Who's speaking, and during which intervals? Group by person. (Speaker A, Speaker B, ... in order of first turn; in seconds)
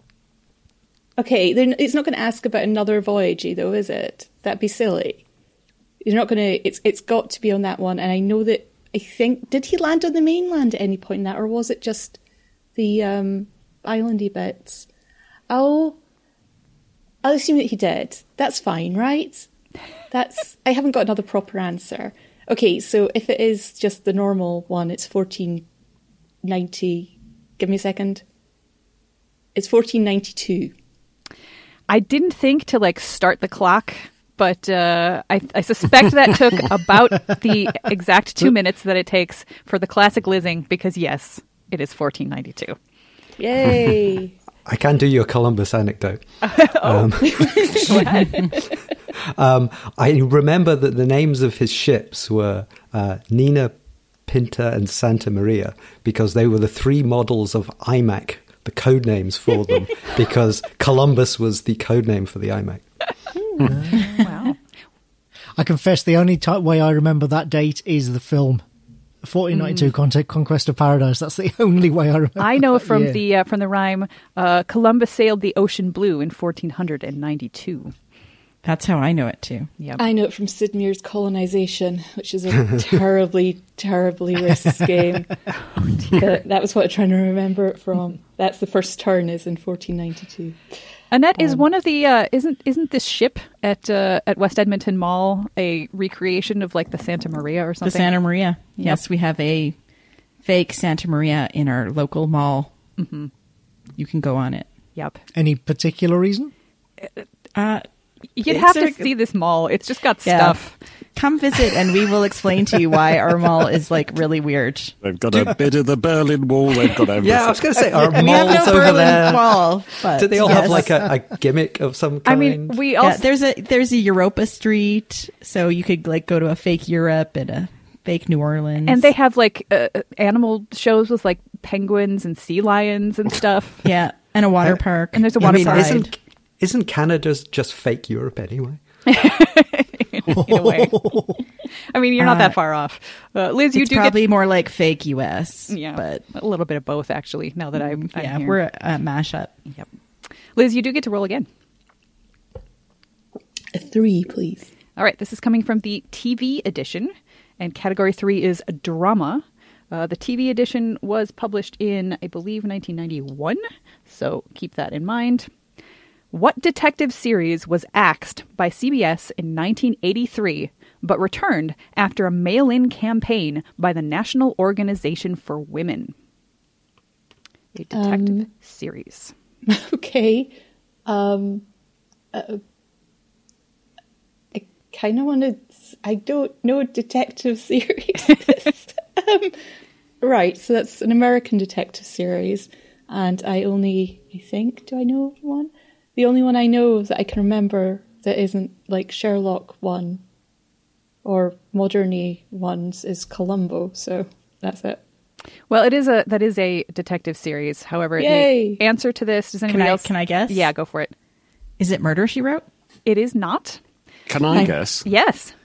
Speaker A: 1.2-5.2, 6.0-12.2, 12.7-14.9, 15.5-16.0, 17.2-19.5, 20.1-25.6, 26.4-28.2, 29.6-30.7, 43.4-44.3, 47.4-48.4, 80.0-85.3, 86.1-90.6, 153.7-154.7, 177.9-178.5, 179.7-180.5, 181.1-181.7, 182.3-182.6, 184.5-189.6, 190.2-200.2, 201.2-205.0, 208.2-208.8
Speaker B: 31.9-42.8, 46.4-48.6, 64.1-64.6, 69.5-69.9, 72.4-77.9, 91.1-98.2, 98.8-99.0, 103.0-103.3, 108.4-110.8, 122.2-123.2, 128.8-133.9, 135.1-136.1, 139.1-141.1, 141.9-144.2, 145.7-148.6, 150.6-151.5, 155.0-165.5, 166.3-176.1, 177.7-179.3, 205.7-211.1, 213.1-213.8, 215.1-215.5
Speaker C: 44.6-48.1, 49.3-53.7, 54.2-62.9, 117.2-122.8, 135.4-138.8
Speaker D: 63.7-64.0, 65.6-68.6, 69.2-73.2, 105.3-106.5, 140.3-141.4
Speaker E: 78.6-79.7, 97.8-99.8, 100.4-102.7, 104.0-104.7, 107.5-107.8, 108.5-109.1, 110.2-110.6, 111.1-114.9, 118.0-121.0, 123.0-129.1, 133.8-136.1, 142.2-142.6, 143.7-146.2, 147.8-149.6, 209.7-210.7, 211.8-212.7
Speaker F: 115.0-117.7, 214.3-215.1